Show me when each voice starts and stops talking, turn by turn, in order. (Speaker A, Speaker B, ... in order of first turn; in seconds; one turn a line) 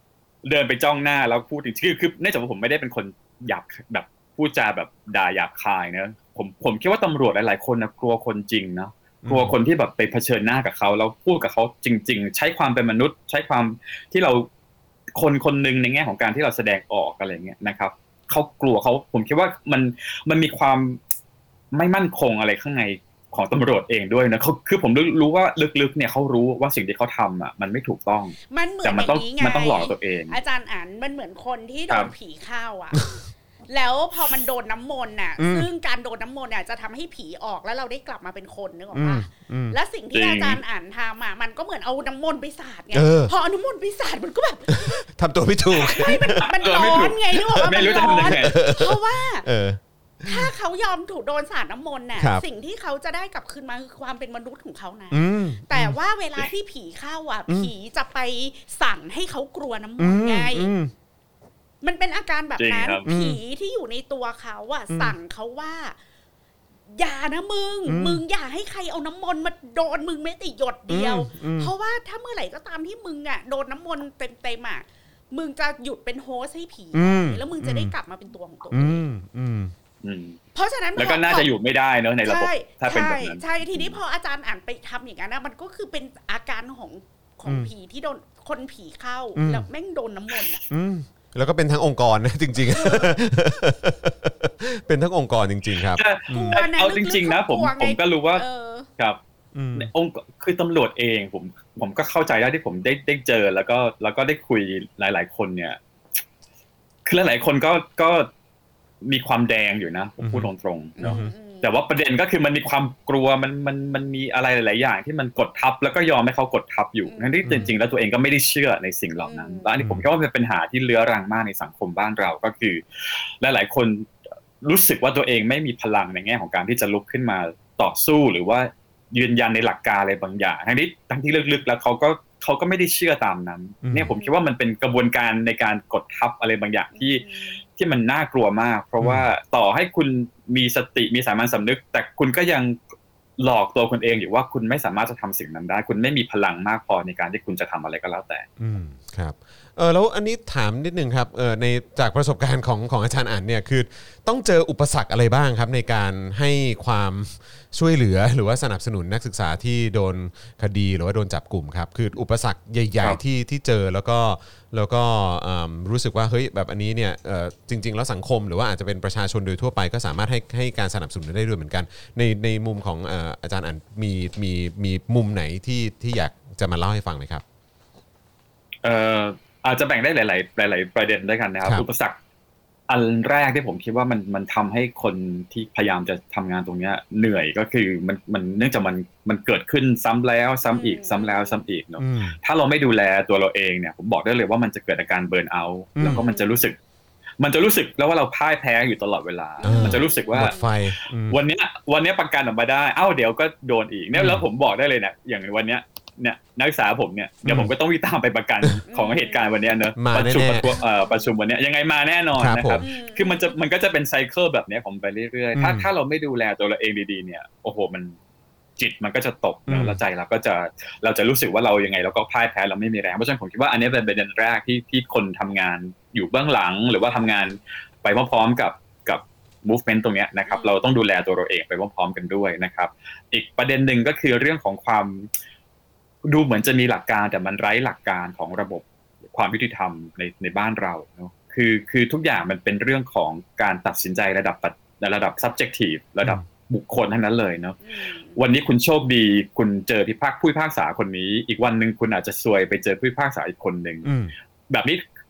Speaker A: 0.4-14.5
Speaker B: 9.2-9.5
Speaker A: 15.2-21.0
Speaker A: 21.7-30.4
Speaker C: 28.5-33.1
Speaker C: 33.7-45.0
Speaker B: 35.4-35.7
Speaker B: 38.9-39.8
Speaker A: 40.1-40.6
Speaker B: 42.9-43.3
Speaker B: 44.7-46.5
Speaker C: 45.7-49.5
Speaker A: 46.4-48.6
Speaker B: 47.4-50.5
Speaker C: 50.2-60.7
Speaker B: 52.2-52.4
Speaker B: 55.1-56.0
Speaker B: 60.0-60.9
Speaker C: 61.8-66.0
Speaker A: 62.6-63.1
Speaker B: 63.0-63.4
Speaker B: 64.9-65.2
Speaker C: 66.9-79.1
Speaker B: 67.9-68.2
Speaker B: 70.9-71.7
Speaker B: 76.9-77.9
Speaker B: 78.7-79.7
Speaker A: 80.0-80.4
Speaker C: 80.5-81.5
Speaker A: 81.0-84.0
Speaker C: 82.2-90.6
Speaker B: 87.5-87.7
Speaker B: 89.4-89.7
Speaker B: 90.7-96.6
Speaker C: 92.7-93.1
Speaker A: 95.8-98.5
Speaker C: 96.3-98.9
Speaker B: 99.5-99.9
Speaker A: 99.8-105.8
Speaker A: 107.1-108.3
Speaker A: 109.0-122.8
Speaker B: 110.2-110.5
Speaker C: 111.0-111.8
Speaker B: 111.0-111.3
Speaker C: 117.0-117.8
Speaker B: 117.4-117.7
Speaker C: 119.2-119.7
Speaker B: 119.8-120.0
Speaker A: 123.4-142.8
Speaker B: 133.8-134.1
Speaker C: 134.1-134.4
Speaker C: 136.9-137.6
Speaker B: 139.0-139.3
Speaker A: 143.4-148.5
Speaker B: 148.6-177.4
Speaker A: 178.8-182.2
Speaker A: 182.9-196.8
Speaker C: 190.7-191.6
Speaker B: 192.0-192.4
Speaker B: 196.0-196.2
Speaker C: 196.1-196.6
Speaker A: 197.4-200.6
Speaker C: 199.6-200.7
Speaker B: 199.6-201.4
Speaker A: 201.3-218.2
Speaker B: 204.1-204.4
Speaker B: 207.4-207.7
Speaker C: 208.9-209.5
Speaker B: 210.0-210.7
Speaker C: 210.7-211.3
Speaker B: 212.3-212.9
Speaker C: 212.8-213.6
Speaker B: 215.6-215.9
Speaker A: 218.8-235.3
Speaker B: 219.7-220.0
Speaker C: 230.5-230.9
Speaker A: 236.2-254.1
Speaker C: 247.8-248.4
Speaker B: 254.1-254.3
Speaker A: 254.7-255.0